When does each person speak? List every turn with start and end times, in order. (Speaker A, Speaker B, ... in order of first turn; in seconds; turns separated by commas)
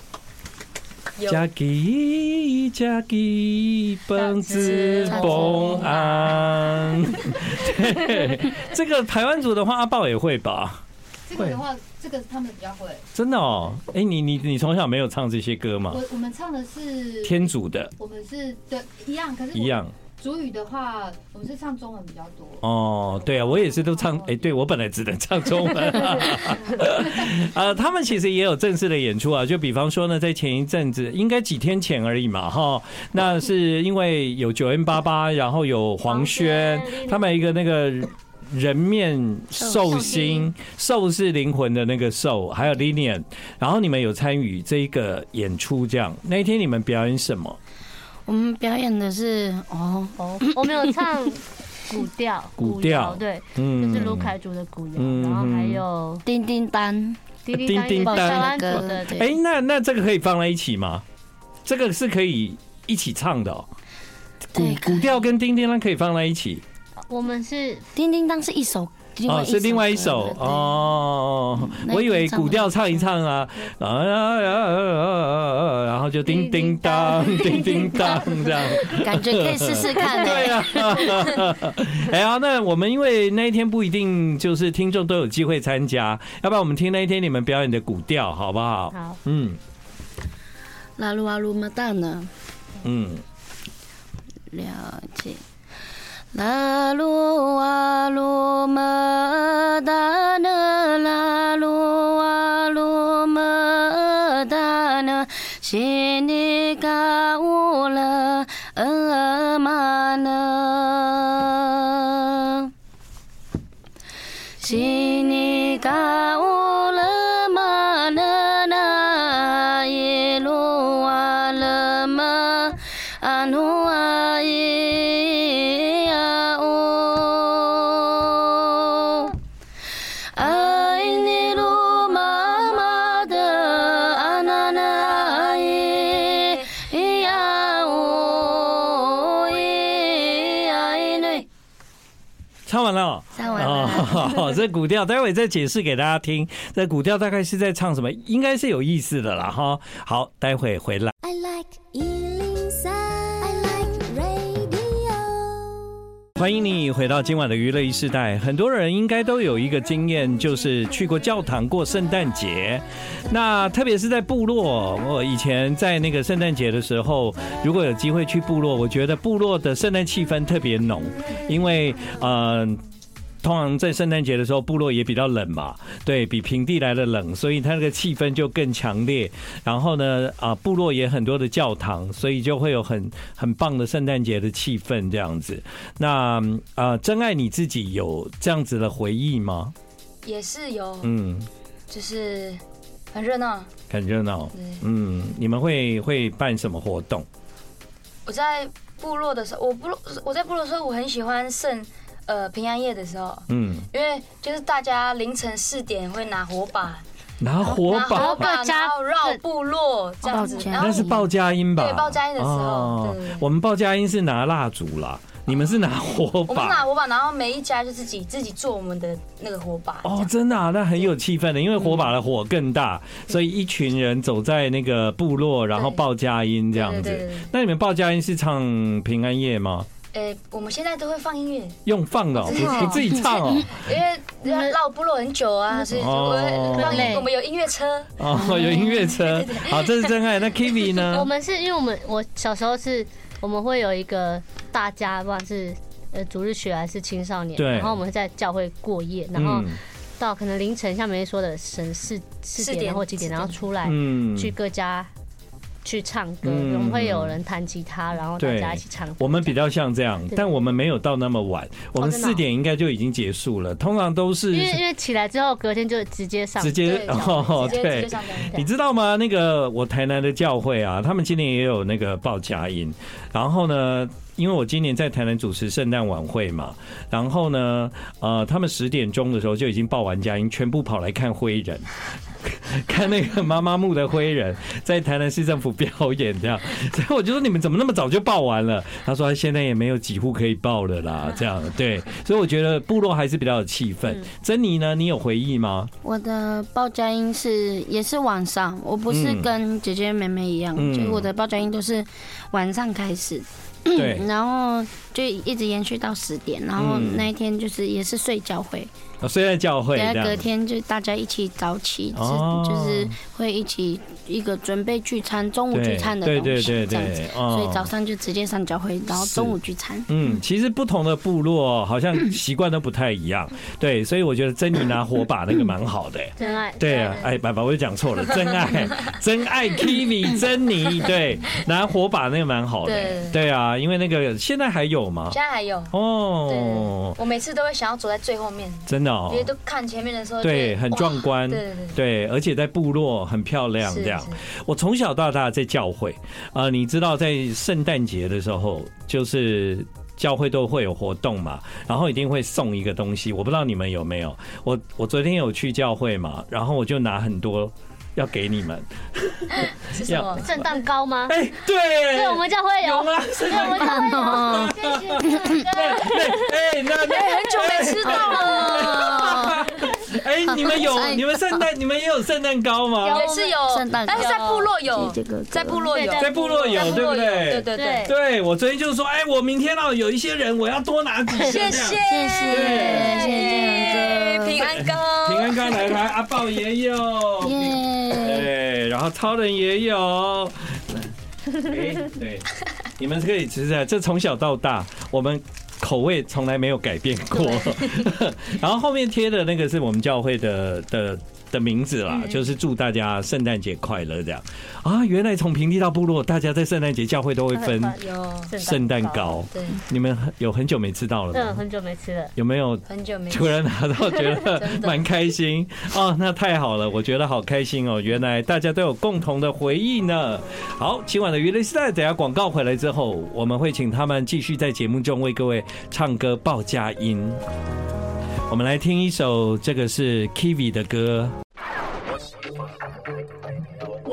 Speaker A: 1.2-1.4, Speaker B: 1.3-10.8, Speaker C: 4.2-5.2, Speaker A: 4.5-6.4, Speaker D: 5.1-6.0, Speaker E: 11.2-13.0, Speaker B: 11.3-11.6, Speaker B: 13.1-16.0, Speaker E: 15.9-22.6, Speaker B: 17.2-17.9, Speaker B: 19.5-19.9, Speaker B: 22.6-47.6, Speaker E: 23.3-24.3, Speaker C: 36.0-37.3, Speaker D: 39.6-40.0, Speaker C: 39.9-40.5, Speaker D: 48.2-51.0, Speaker C: 50.2-56.2, Speaker B: 52.6-54.4, Speaker B: 55.0-55.8, Speaker D: 56.2-57.2, Speaker C: 57.4-59.2, Speaker B: 57.5-61.0, Speaker D: 58.0-59.3, Speaker B: 61.6-63.7, Speaker D: 64.5-65.2, Speaker B: 64.5-66.6, Speaker C: 67.1-67.9, Speaker D: 68.0-70.9, Speaker B: 69.2-89.6, Speaker D: 71.5-72.8, Speaker C: 76.2-79.1, Speaker D: 79.0-81.3, Speaker C: 88.9-89.2, Speaker D: 91.0-92.3, Speaker B: 92.8-93.2, Speaker D: 94.5-95.4, Speaker D: 96.3-112.7, Speaker D: 114.6-129.4, Speaker D: 130.2-141.5, Speaker B: 142.7-151.1, Speaker D: 143.3-144.4, Speaker F: 151.2-152.7, Speaker D: 151.3-152.1, Speaker F: 153.4-155.1, Speaker B: 156.4-172.8, Speaker B: 173.4-189.7, Speaker A: 190.2-191.1, Speaker B: 191.0-191.5, Speaker A: 191.9-192.6, Speaker A: 193.1-193.7, Speaker B: 193.9-197.2, Speaker A: 194.5-194.8, Speaker A: 198.2-207.0, Speaker B: 203.5-203.8, Speaker B: 207.4-208.4, Speaker A: 207.6-211.1, Speaker D: 208.1-209.3, Speaker D: 210.2-211.3, Speaker B: 210.8-216.8, Speaker A: 211.7-213.4, Speaker A: 216.5-220.3, Speaker B: 220.0-229.9, Speaker A: 225.7-226.0, Speaker A: 226.7-227.5, Speaker A: 230.1-231.8, Speaker B: 231.8-233.8, Speaker A: 232.4-238.1, Speaker D: 232.5-233.1, Speaker C: 234.4-234.7, Speaker B: 235.9-237.2, Speaker E: 236.7-237.3, Speaker B: 238.2-241.3, Speaker D: 238.3-239.1, Speaker A: 239.1-240.1, Speaker A: 240.7-241.2, Speaker C: 241.1-255.1, Speaker B: 247.6-248.0, Speaker B: 249.3-249.8, Speaker A: 252.6-253.6, Speaker B: 253.8-254.5, Speaker C: 255.8-259.6, Speaker B: 256.4-257.4, Speaker B: 258.4-264.8, Speaker C: 260.3-260.7, Speaker C: 262.0-262.4, Speaker C: 264.5-267.9, Speaker B: 266.6-281.9, Speaker A: 266.8-268.6, Speaker B: 282.4-295.9, Speaker D: 296.0-308.9, Speaker B: 299.1-299.5, Speaker B: 300.8-301.3, Speaker B: 303.9-304.2, Speaker B: 306.8-307.3, Speaker B: 309.2-310.4, Speaker D: 309.9-320.1, Speaker B: 312.1-313.2, Speaker B: 315.7-317.9, Speaker B: 319.2-319.6, Speaker B: 320.1-335.4, Speaker C: 326.4-327.4, Speaker A: 332.8-333.4, Speaker A: 335.3-335.9, Speaker B: 335.9-337.2, Speaker A: 336.5-342.0, Speaker B: 338.9-339.5, Speaker B: 340.4-360.7, Speaker A: 343.8-344.4, Speaker A: 359.5-360.5, Speaker C: 360.3-361.4, Speaker B: 361.3-373.3, Speaker C: 362.1-364.8, Speaker D: 363.5-365.6, Speaker C: 365.4-366.5, Speaker A: 367.0-369.4, Speaker D: 368.0-369.6, Speaker D: 370.4-371.7, Speaker C: 373.0-373.6, Speaker A: 373.0-378.1, Speaker D: 373.7-374.3, Speaker C: 374.1-374.7, Speaker D: 374.8-375.8, Speaker C: 375.8-377.1, Speaker B: 376.2-383.2, Speaker C: 377.7-378.1, Speaker A: 381.4-385.9, Speaker D: 382.0-384.6, Speaker B: 384.7-407.9, Speaker D: 387.4-388.5, Speaker A: 402.1-402.4, Speaker C: 407.5-409.4, Speaker A: 408.0-408.5, Speaker B: 408.6-411.6, Speaker A: 409.5-409.8, Speaker C: 411.3-412.3, Speaker B: 412.4-427.4, Speaker A: 412.9-413.6, Speaker A: 414.4-415.1, Speaker B: 428.5-431.3